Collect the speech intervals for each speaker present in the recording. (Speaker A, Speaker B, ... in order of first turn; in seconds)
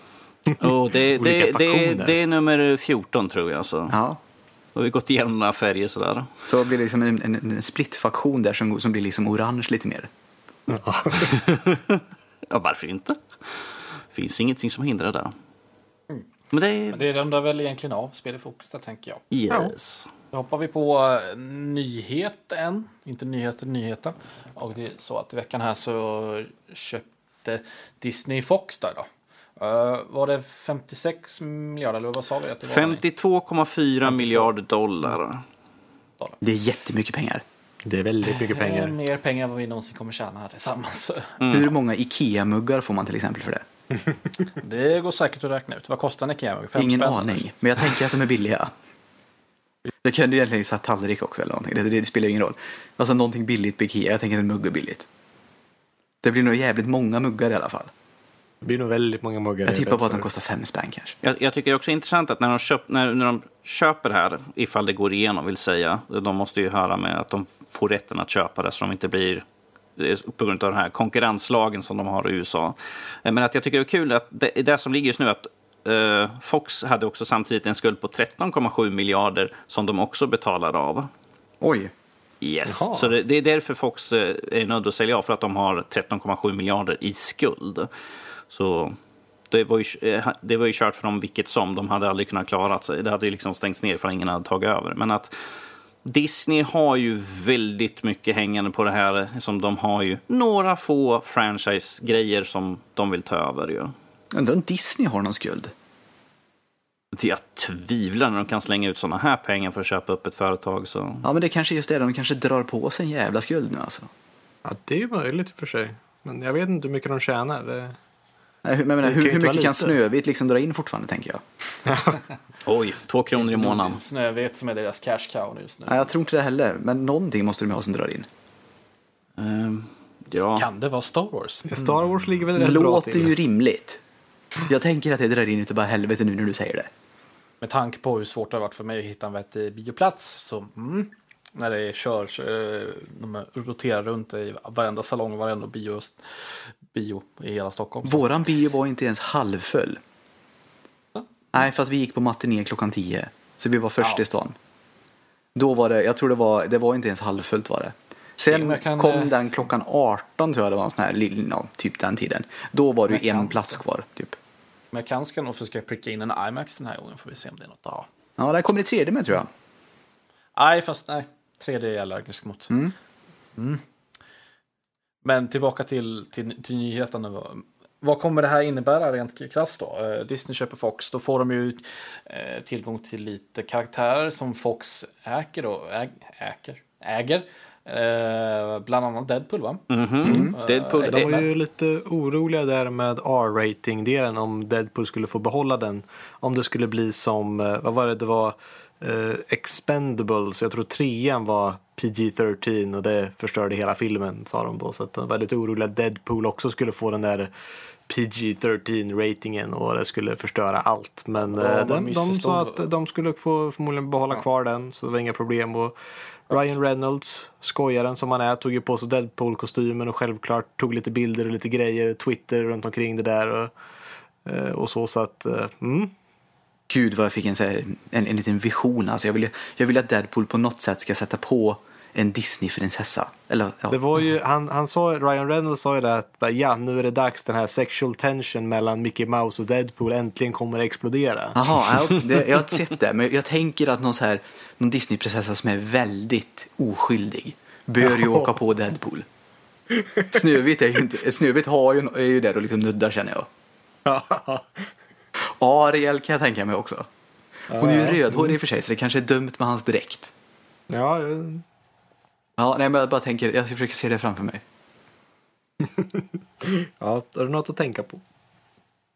Speaker A: 0.6-4.0, 4.7-6.3, 11.3-15.3, 16.5-17.1, 19.3-20.1, 32.6-35.4, 41.4-41.7, 61.2-69.4, 70.0-81.1, 82.4-87.9, 88.5-89.0, 89.5-95.3, 96.0-103.9, 107.1-111.2, 122.6-124.0, 129.4-130.7, 189.9-191.4
Speaker B: 1.2-2.1, 10.7-11.3, 37.9-38.9, 58.6-60.2, 82.7-83.1, 114.6-118.0, 119.0-120.0, 121.9-122.2, 131.7-133.3, 190.2-190.5, 191.0-207.5, 208.1-215.9, 216.5-223.7, 224.4-226.1, 233.9-241.6, 249.9-250.3, 254.1-254.9, 257.7-258.6, 260.9-261.6, 266.6-268.2
Speaker C: 3.9-4.2, 6.5-10.1, 36.4-37.4, 41.5-43.6, 46.8-48.7, 50.0-55.0, 56.2-57.9, 59.7-61.1, 81.6-81.9, 104.3-105.7, 111.2-114.1, 118.6-121.4, 125.9-128.3, 132.6-134.0, 134.6-136.9, 148.0-150.0, 151.5-154.6, 155.5-164.3, 168.4-169.5, 190.2-190.6, 226.9-233.9, 241.5-249.2, 250.3-253.5, 255.4-257.1, 257.8-260.3, 262.6-264.6
Speaker D: 16.9-19.2, 20.3-33.0, 34.0-34.5, 38.2-41.5, 44.6-47.5, 123.3-126.1, 130.6-132.0, 137.6-148.2, 158.4-159.3, 163.1-163.7, 164.9-168.1, 170.6-172.7, 173.6-173.8, 175.2-191.4, 211.5-212.8